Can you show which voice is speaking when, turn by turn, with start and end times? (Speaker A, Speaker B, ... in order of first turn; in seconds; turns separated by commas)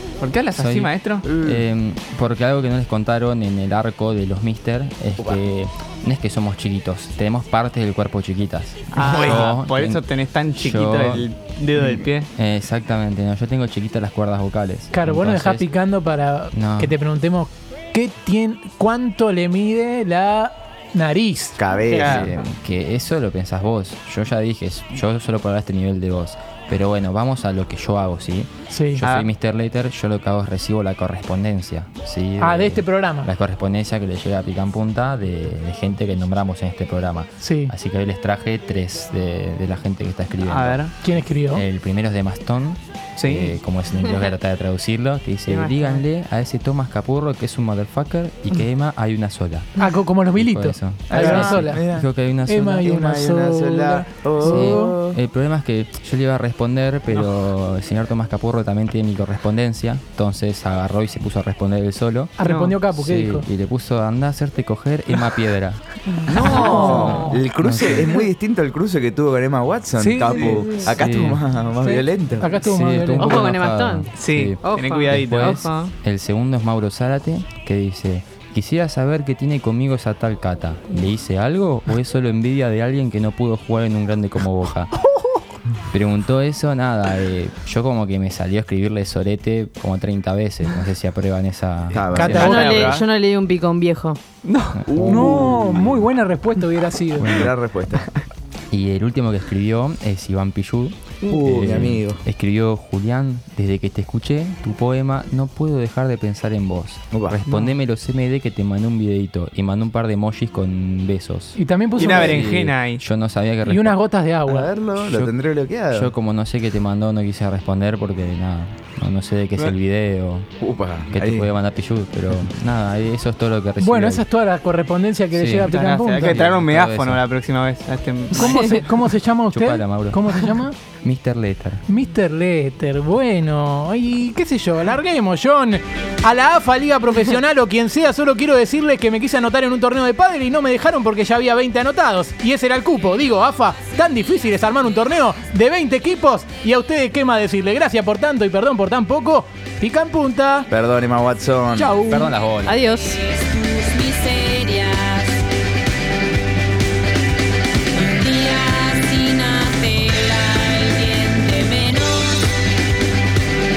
Speaker A: 0.2-1.3, Speaker B: 0.6-10.0, Speaker C: 1.2-1.6, Speaker A: 8.9-12.3, Speaker C: 9.0-9.5, Speaker B: 10.6-11.3, Speaker C: 11.8-12.1, Speaker B: 12.4-15.7, Speaker D: 14.9-21.8, Speaker B: 16.5-17.0, Speaker C: 21.6-22.4, Speaker A: 21.9-22.3, Speaker B: 21.9-40.9, Speaker D: 28.7-29.0, Speaker A: 29.0-29.3, Speaker D: 32.4-33.3, Speaker D: 37.4-37.7, Speaker A: 40.4-40.9, Speaker D: 41.0-41.6, Speaker B: 41.5-49.7, Speaker A: 43.2-43.6, Speaker A: 45.5-46.0, Speaker D: 49.8-51.8, Speaker B: 50.4-52.9, Speaker C: 51.1-52.1, Speaker D: 52.5-54.9, Speaker C: 52.8-55.2, Speaker B: 54.4-62.3, Speaker D: 62.4-63.5, Speaker A: 62.4-62.8, Speaker B: 62.9-68.3, Speaker E: 66.2-67.4, Speaker C: 66.3-72.6, Speaker D: 66.5-67.1, Speaker D: 70.0-70.8, Speaker E: 70.4-71.0, Speaker B: 70.9-71.4, Speaker D: 72.4-73.4, Speaker B: 72.6-84.9, Speaker E: 73.2-74.1, Speaker A: 74.2-75.9, Speaker E: 74.6-75.8, Speaker B: 85.9-92.6, Speaker C: 91.9-93.1, Speaker D: 92.1-93.0, Speaker E: 92.3-94.2, Speaker A: 94.5-94.9, Speaker B: 94.8-95.7, Speaker C: 94.9-96.0, Speaker D: 95.0-97.3, Speaker B: 97.2-97.5, Speaker C: 97.3-98.1, Speaker B: 98.7-114.0, Speaker C: 101.3-102.2, Speaker C: 107.1-107.4, Speaker A: 107.5-107.8, Speaker D: 111.6-112.5, Speaker A: 112.0-113.0, Speaker D: 113.7-114.7, Speaker C: 114.5-116.1, Speaker B: 115.0-115.3, Speaker B: 115.9-120.5, Speaker C: 120.6-121.5, Speaker B: 121.1-124.3, Speaker D: 123.8-126.5, Speaker B: 125.3-127.2, Speaker A: 125.7-128.9, Speaker D: 128.3-130.8, Speaker E: 128.5-128.8, Speaker B: 129.5-130.4, Speaker B: 131.0-131.8, Speaker D: 131.9-150.7, Speaker C: 150.7-152.0, Speaker D: 151.8-152.2, Speaker E: 151.8-155.4, Speaker B: 152.1-152.8, Speaker E: 157.9-162.5